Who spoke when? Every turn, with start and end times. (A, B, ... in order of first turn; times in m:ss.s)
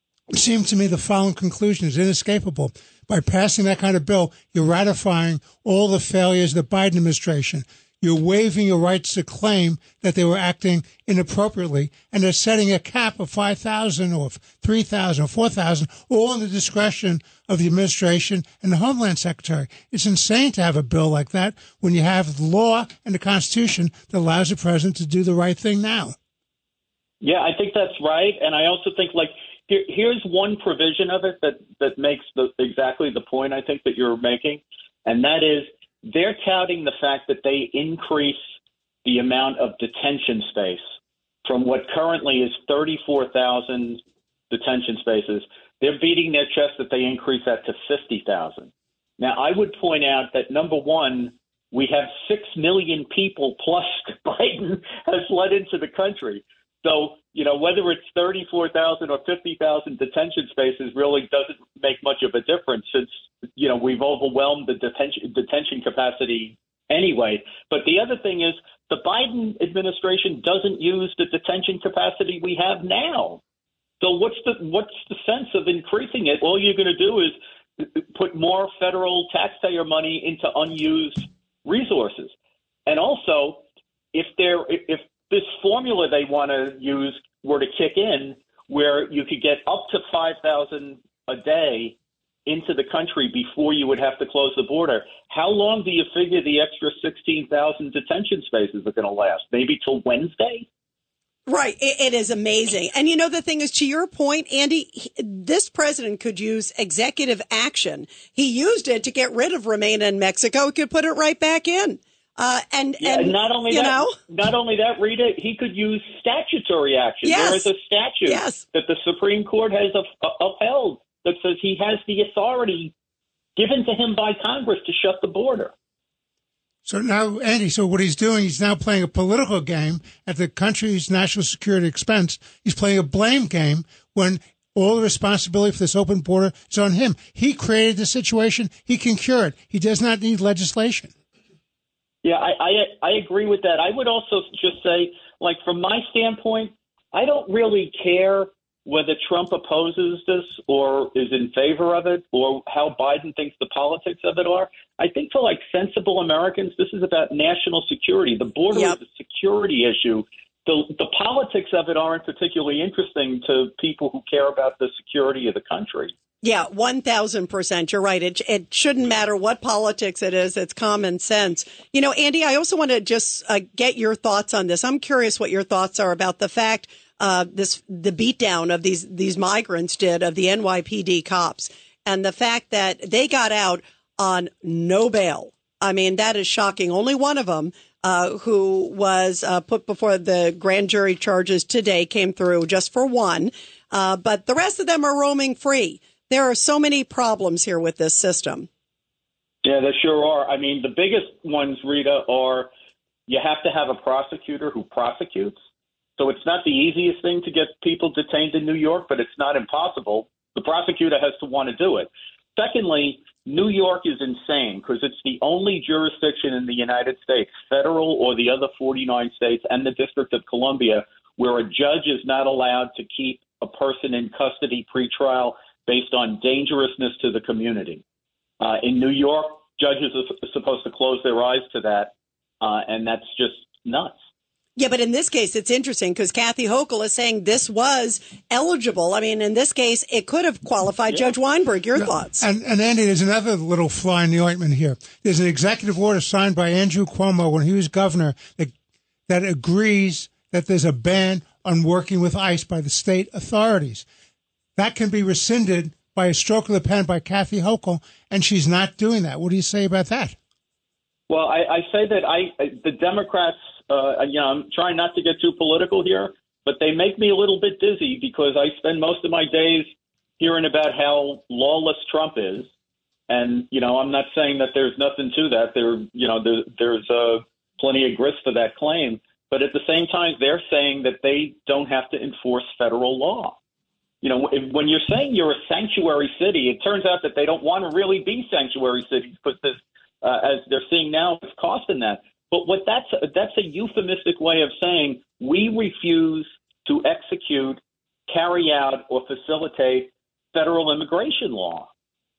0:00.3-0:26.1 A
0:27.2-0:38.4 B
0:39.0-0:40.8 B
0:41.4-1:13.4 B
1:14.0-1:22.3 B
1:22.8-1:40.6 B
1:41.5-1:54.1 C
1:53.0-2:02.9 B
1:57.2-1:57.7 C
1:58.2-1:58.6 C
2:03.6-2:05.7 B
2:06.8-2:21.1 A
2:22.2-2:46.1 B
2:46.4-3:18.7 C
3:19.6-3:22.7 B
3:23.3-3:25.6 B
3:26.2-3:48.0 B
3:48.6-3:54.2 B
3:54.8-4:02.4 C
4:02.0-4:08.7 A
4:09.3-4:14.0 A
4:14.8-4:20.3 A
4:21.3-4:29.9 B
4:30.4-4:32.7 B
4:33.3-4:43.6 B
4:44.2-5:01.9 B